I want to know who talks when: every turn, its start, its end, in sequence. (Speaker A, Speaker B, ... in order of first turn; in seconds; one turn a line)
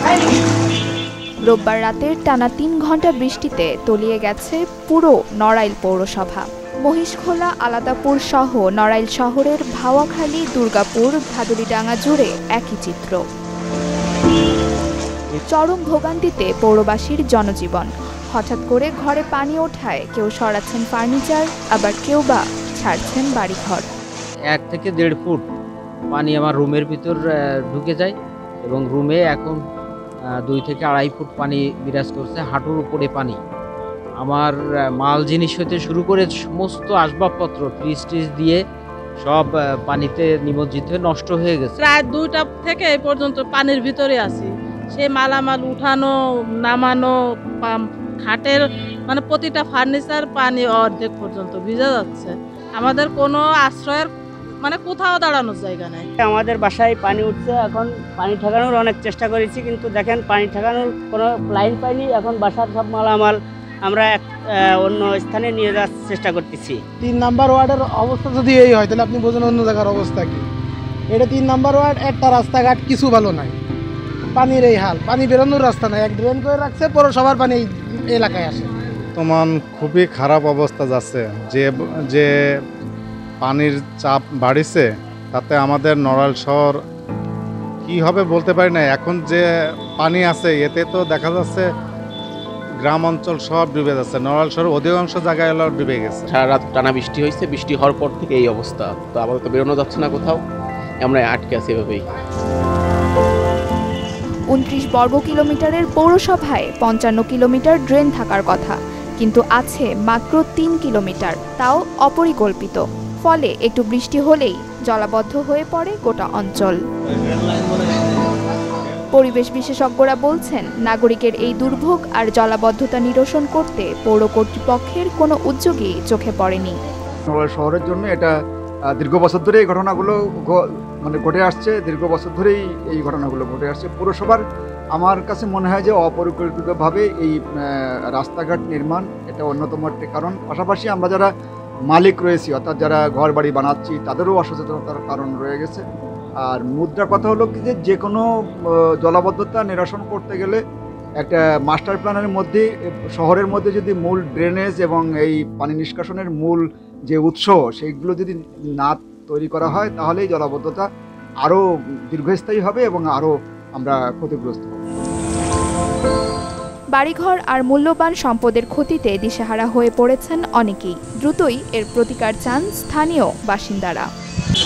Speaker A: 1.4-13.2
Speaker A: 15.5-23.9
Speaker B: 24.5-25.4
Speaker B: 26.1-29.6
Speaker B: 30.3-33.4
Speaker B: 34.2-38.6
Speaker B: 39.2-41.8
Speaker C: 41.8-46.1
Speaker C: 46.6-47.1
Speaker C: 47.6-54.1
Speaker C: 54.6-56.1
Speaker D: 56.2-66.8
Speaker E: 67.0-70.4
Speaker E: 71.1-73.5
Speaker E: 74.3-78.7
Speaker F: 79.2-82.3
Speaker F: 83.4-86.8
Speaker F: 87.8-89.4
Speaker F: 90.0-91.6
Speaker F: 92.8-96.3
Speaker G: 96.3-100.4
Speaker G: 101.0-102.0
Speaker A: 104.5-116.8
Speaker A: 119.1-126.8
Speaker H: 127.3-128.3
Speaker H: 128.9-134.4
Speaker H: 134.9-141.3
Speaker H: 141.9-145.8
Speaker H: 146.4-150.6
Speaker H: 151.2-160.8
Speaker H: 161.4-164.8
Speaker A: 166.9-174.1